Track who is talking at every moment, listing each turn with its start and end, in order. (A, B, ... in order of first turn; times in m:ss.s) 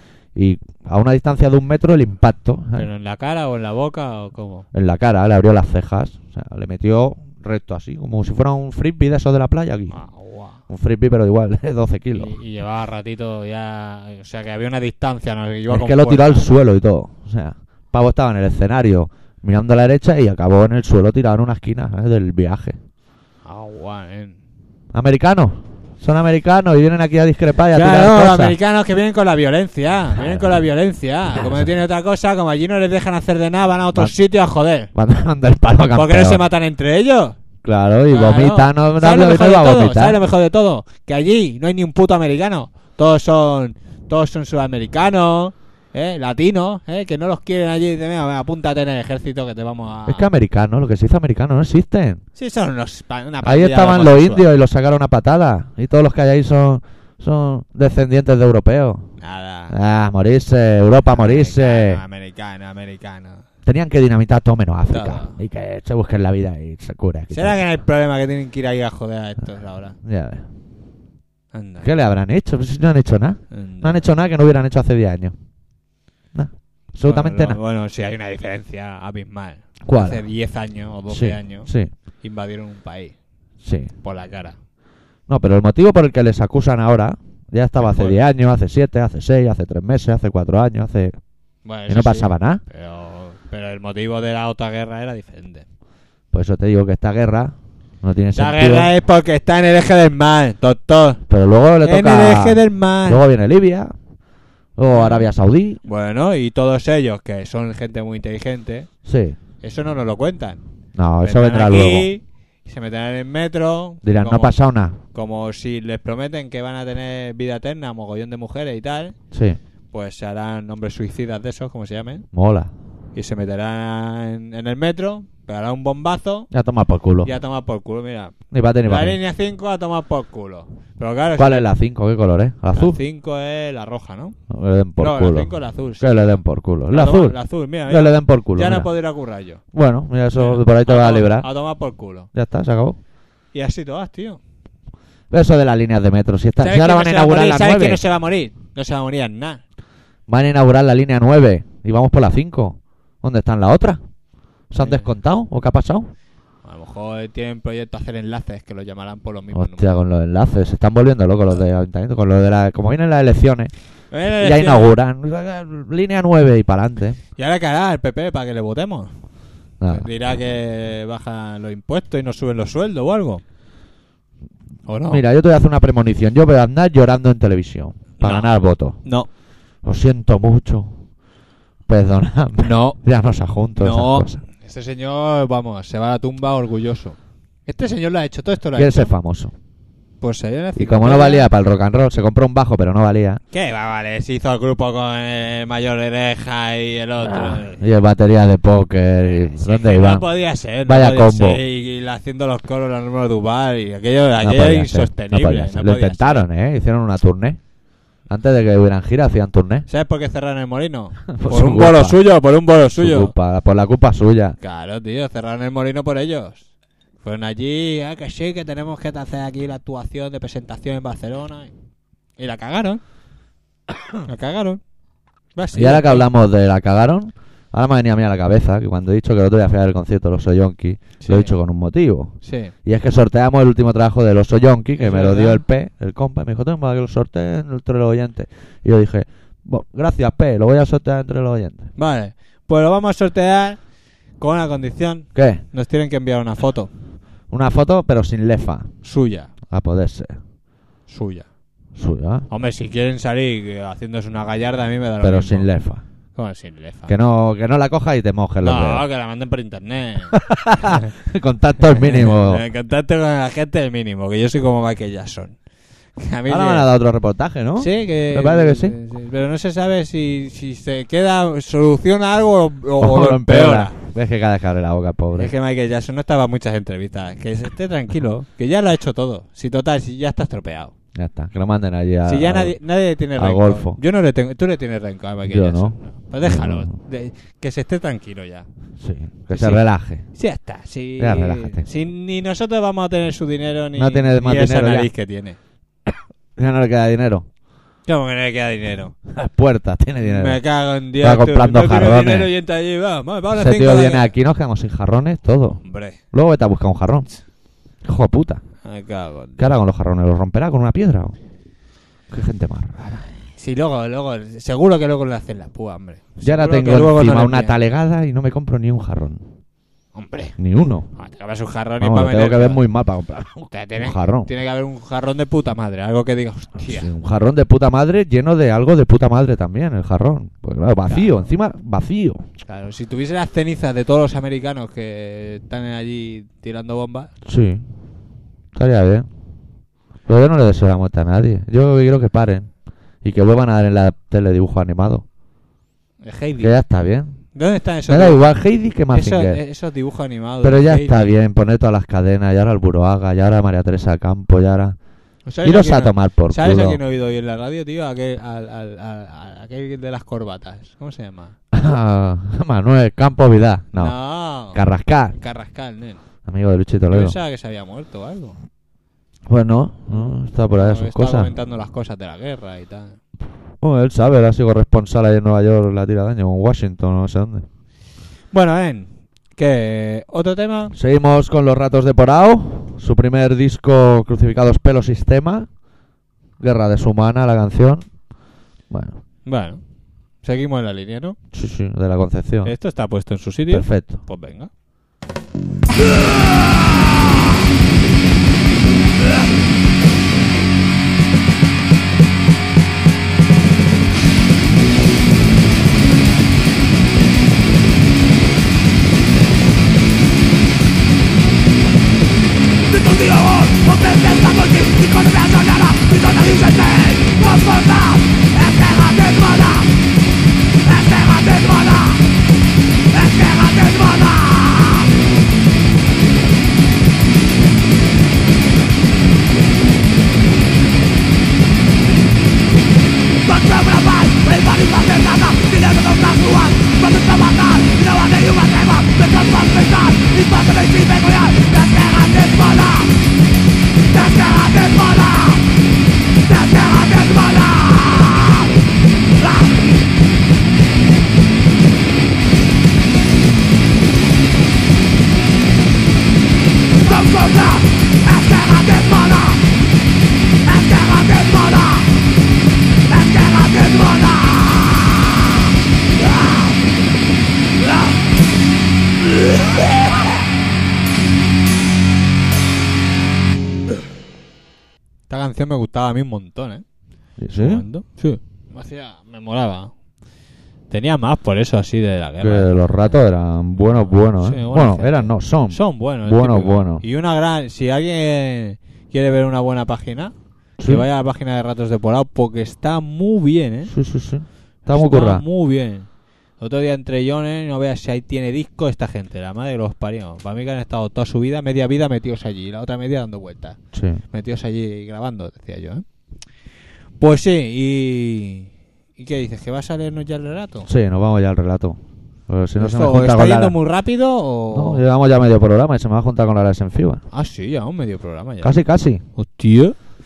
0:00.3-0:02.9 A
0:02.7-0:04.6 B
0:04.7-0:09.9 A
0:09.9-0:10.6 B
0:10.7-0:12.4 A
0:12.1-0:16.4 B
0:15.7-0:22.8 A
0:23.4-0:24.4 B
0:24.9-0:28.6 A
0:27.7-0:34.9 B
0:30.1-0:30.5 A
0:31.4-0:31.7 A
0:34.9-0:36.4 A
0:35.9-0:37.4 B
0:37.6-0:40.2 A
0:38.1-0:50.3 B
0:50.1-0:52.2 A
0:52.4-0:54.4 B
0:53.4-0:59.0 A
0:59.2-0:59.8 B
0:59.7-1:02.0 A
1:01.1-1:03.4 B
1:03.6-1:07.6 A
1:04.9-1:05.4 B
1:07.3-1:10.0 B
1:10.0-1:10.4 A
1:11.5-1:12.0 B
1:11.8-1:15.3 A
1:13.5-1:14.1 B
1:16.3-1:17.6 A
1:17.0-1:21.7 B
1:19.8-1:20.2 A
1:21.1-1:21.9 A
1:22.2-1:23.1 B
1:23.6-1:23.9 A
1:24.0-1:24.6 B
1:25.3-1:31.2 A
1:27.8-1:28.2 B
1:31.6-1:35.6 B
1:31.9-1:32.6 A
1:36.3-1:38.9 A
1:38.3-1:41.2 B
1:41.3-1:43.9 A
1:41.8-1:43.2 B
1:44.8-1:45.8 A
1:44.9-1:45.3 B
1:45.8-1:48.9 B
1:49.0-1:49.4 A
1:49.6-1:50.6 B
1:50.9-1:52.1 A
1:51.2-1:54.6 B
1:54.0-1:55.0 A
1:55.1-1:59.1 B
1:59.3-1:59.6 A
1:59.9-2:02.2 B
2:02.3-2:02.7 A
2:03.1-2:06.5 B
2:06.5-2:07.3 A
2:07.2-2:08.3 B
2:08.5-2:09.2 A
2:08.8-2:11.7 B
2:11.4-2:13.0 A
2:12.7-2:14.4 B
2:14.5-2:18.9 A
2:15.0-2:16.2 B
2:16.9-2:19.6 B
2:19.7-2:21.5 A
2:20.4-2:22.3 B
2:22.3-2:23.0 A
2:23.5-2:24.4 B
2:25.3-2:28.0 A
2:26.6-2:29.6 B
2:30.3-2:34.0 A
2:34.7-2:36.1 A
2:34.8-2:35.1 B
2:36.6-2:40.0 B
2:39.5-2:43.7 A
2:44.1-2:44.9 B
2:44.4-2:47.2 A
2:47.4-2:49.1 B
2:49.8-2:50.0 A
2:49.9-2:53.4 B
2:54.9-2:55.2 B
2:55.1-2:59.0 A
2:58.2-2:58.5 B
2:59.8-3:01.0 A
3:01.9-3:04.4 A
3:02.6-3:03.0 B
3:03.8-3:09.1 B
3:08.7-3:09.5 A
3:10.2-3:11.5 B
3:10.8-3:13.4 A
3:13.5-3:17.8 B
3:17.2-3:20.2 A
3:19.2-3:26.4 B
3:20.8-3:21.6 A
3:24.4-3:27.6 A
3:28.3-3:29.8 A
3:29.9-3:33.3 B
3:31.3-3:32.2 A
3:33.0-3:34.6 A
3:34.6-3:36.6 B
3:37.2-3:41.7 B
3:42.4-3:43.0 B
3:44.2-3:44.8 B
3:45.5-3:46.3 B
3:45.7-4:01.9 A
3:51.2-3:51.5 B
3:52.4-3:52.7 B
3:55.0-3:55.6 B
4:02.0-4:03.8 B
4:04.4-4:06.9 B
4:05.3-4:05.6 A
4:07.5-4:08.9 A
4:09.0-4:09.5 B
4:09.7-4:10.4 A
4:11.1-4:11.4 B
4:12.0-4:12.4 A
4:12.5-4:15.7 B
4:15.2-4:16.0 A
4:16.4-4:17.2 B
4:17.1-4:19.0 A
4:18.6-4:21.1 B
4:20.3-4:22.6 A
4:21.8-4:25.6 B
4:26.2-4:26.9 B
4:26.5-4:28.9 A
4:27.8-4:33.9 B
4:33.0-4:35.5 A
4:35.3-4:40.9 B
4:41.1-4:42.7 A
4:42.2-4:48.7 B
4:43.4-4:44.0 A
4:45.5-4:46.9 A
4:49.0-4:50.2 A
4:49.5-4:49.8 B
4:50.3-4:55.6 B
4:51.2-4:51.9 A
4:54.0-4:55.1 A
4:56.6-4:57.4 A
4:58.1-4:59.1 B
4:59.3-5:00.6 A
5:00.2-5:04.3 B
5:01.2-5:02.5 A
5:03.5-5:05.8 A
5:05.8-5:06.2 B
5:06.3-5:07.3 A
5:08.0-5:08.6 A
5:08.8-5:09.8 B
5:09.6-5:11.4 A
5:12.3-5:13.2 A
5:13.6-5:17.7 B
5:16.4-5:19.4 A
5:20.1-5:20.6 B
5:20.6-5:21.1 A
5:21.1-5:22.8 B
5:22.0-5:24.5 A
5:23.7-5:27.1 B
5:26.8-5:32.4 A
5:31.1-5:31.4 B
5:32.6-5:37.3 B
5:37.4-5:37.8 A
5:38.7-5:39.3 A
5:40.3-5:42.7 A
5:43.2-5:45.2 A
5:46.2-5:46.8 B
5:46.6-5:47.4 A
5:47.5-5:48.5 B
5:48.1-5:49.6 A
5:49.1-5:51.3 B
5:50.6-5:55.0 A
5:55.4-6:01.5 B
5:55.6-5:57.0 A
6:01.7-6:04.1 A
6:03.9-6:04.8 B
6:04.7-6:05.4 A
6:05.3-6:06.2 B
6:06.4-6:07.4 A
6:07.1-6:08.6 B
6:09.5-6:11.5 A
6:10.1-6:13.2 B
6:13.8-6:17.6 A
6:18.5-6:20.9 B
6:20.9-6:25.7 A
6:26.6-6:28.0 A
6:28.9-6:29.2 A
6:29.4-6:29.8 B
6:30.4-6:31.4 B
6:31.5-6:32.7 A
6:32.6-6:34.7 B
6:33.7-6:34.2 A
6:52.9-6:59.9 B
7:00.8-7:02.2 B
7:03.1-7:05.0 B
7:13.4-7:23.1 B
7:24.1-7:25.6 B
7:26.4-7:28.6 B
7:37.0-7:39.6 B
7:40.6-7:42.0 B
7:43.1-7:44.7 B
7:55.3-7:56.8 B
7:57.4-7:57.8 A
7:57.5-7:59.9 B
8:00.9-8:03.1 B
8:02.4-8:07.0 A
8:04.4-8:13.9 B
8:10.8-8:11.0 A
8:13.9-8:15.4 A
8:14.9-8:16.1 B
8:16.6-8:23.8 B
8:23.9-8:24.2 A
8:24.3-8:26.0 B
8:27.2-8:30.9 B
8:30.9-8:33.8 A
8:32.8-8:35.0 B
8:34.7-8:37.2 A
8:37.3-8:38.8 B
8:38.6-8:39.2 A
8:39.3-8:40.0 B